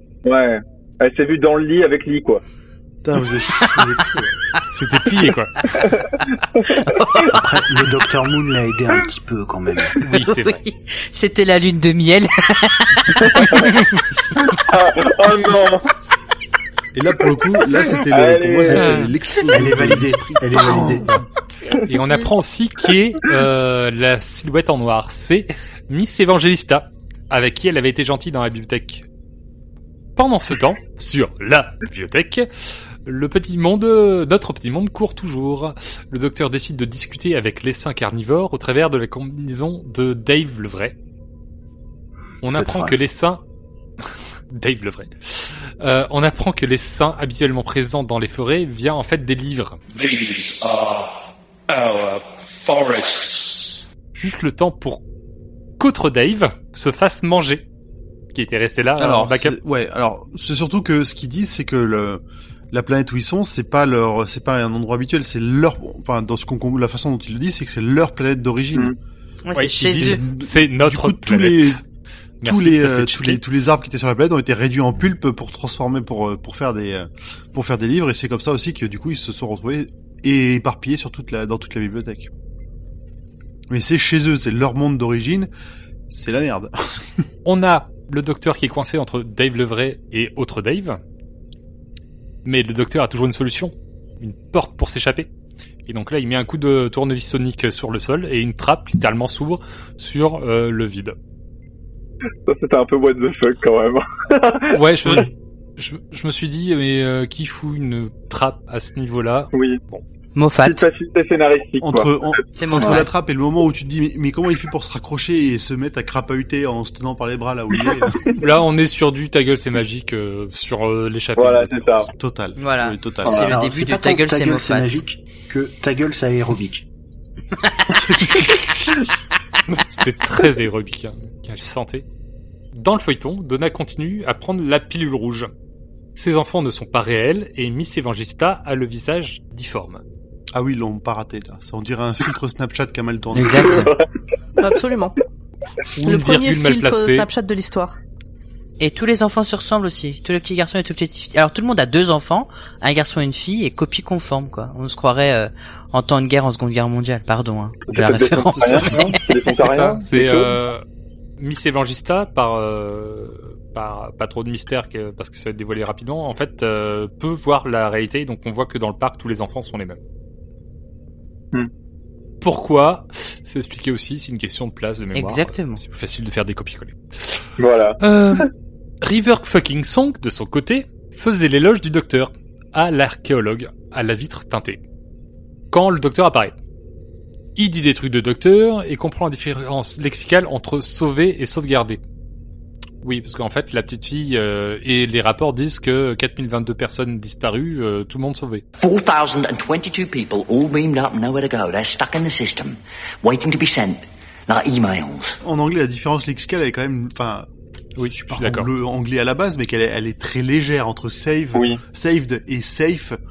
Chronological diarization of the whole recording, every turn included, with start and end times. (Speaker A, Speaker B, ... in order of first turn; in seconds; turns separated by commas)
Speaker A: 0.2-2.4, Speaker B: 3.0-4.3, Speaker C: 4.7-5.5, Speaker A: 5.9-7.3, Speaker D: 6.8-7.4, Speaker E: 7.3-10.0, Speaker C: 10.0-10.6, Speaker D: 10.1-13.9, Speaker A: 13.4-13.7, Speaker A: 14.5-15.9, Speaker B: 16.9-21.2, Speaker A: 18.1-19.0, Speaker C: 18.7-19.1, Speaker E: 19.5-21.2, Speaker C: 21.9-29.1, Speaker C: 30.2-41.0, Speaker E: 42.4-43.0, Speaker C: 42.4-43.4, Speaker C: 44.5-49.8, Speaker C: 54.1-55.0, Speaker C: 55.8-57.6, Speaker C: 58.3-59.6, Speaker B: 59.0-68.9, Speaker D: 69.5-70.2, Speaker C: 69.6-71.8, Speaker B: 69.9-71.8, Speaker C: 72.4-73.4, Speaker B: 72.4-82.3, Speaker B: 83.7-85.5, Speaker B: 86.1-87.2, Speaker C: 87.5-91.0, Speaker C: 92.5-95.3, Speaker C: 95.9-101.2, Speaker A: 102.5-104.8, Speaker C: 104.7-110.0, Speaker A: 109.5-109.8, Speaker D: 110.3-110.8, Speaker A: 110.6-113.1, Speaker B: 111.8-118.2, Speaker D: 112.6-113.1, Speaker C: 118.4-122.1, Speaker A: 121.4-122.1, Speaker B: 122.2-123.5, Speaker D: 122.6-125.0, Speaker A: 123.3-123.5, Speaker E: 123.3-126.9, Speaker B: 127.9-128.9, Speaker C: 129.7-132.1, Speaker C: 132.7-135.5, Speaker C: 136.2-140.0, Speaker B: 140.5-143.9, Speaker D: 143.3-143.9, Speaker A: 143.6-144.1, Speaker F: 144.6-145.2, Speaker C: 146.0-147.3, Speaker F: 146.0-148.0, Speaker D: 148.8-160.0, Speaker A: 157.9-160.5, Speaker B: 158.5-159.2, Speaker C: 159.5-160.8, Speaker C: 161.4-170.0, Speaker C: 172.4-177.4, Speaker D: 175.1-175.8, Speaker A: 177.6-178.4, Speaker C: 178.0-178.5, Speaker C: 179.0-184.8, Speaker C: 185.7-186.5, Speaker C: 187.6-192.0, Speaker C: 193.0-198.6, Speaker G: 198.8-205.4, Speaker B: 205.4-207.5, Speaker C: 208.0-208.7, Speaker B: 208.0-213.2, Speaker A: 211.6-211.8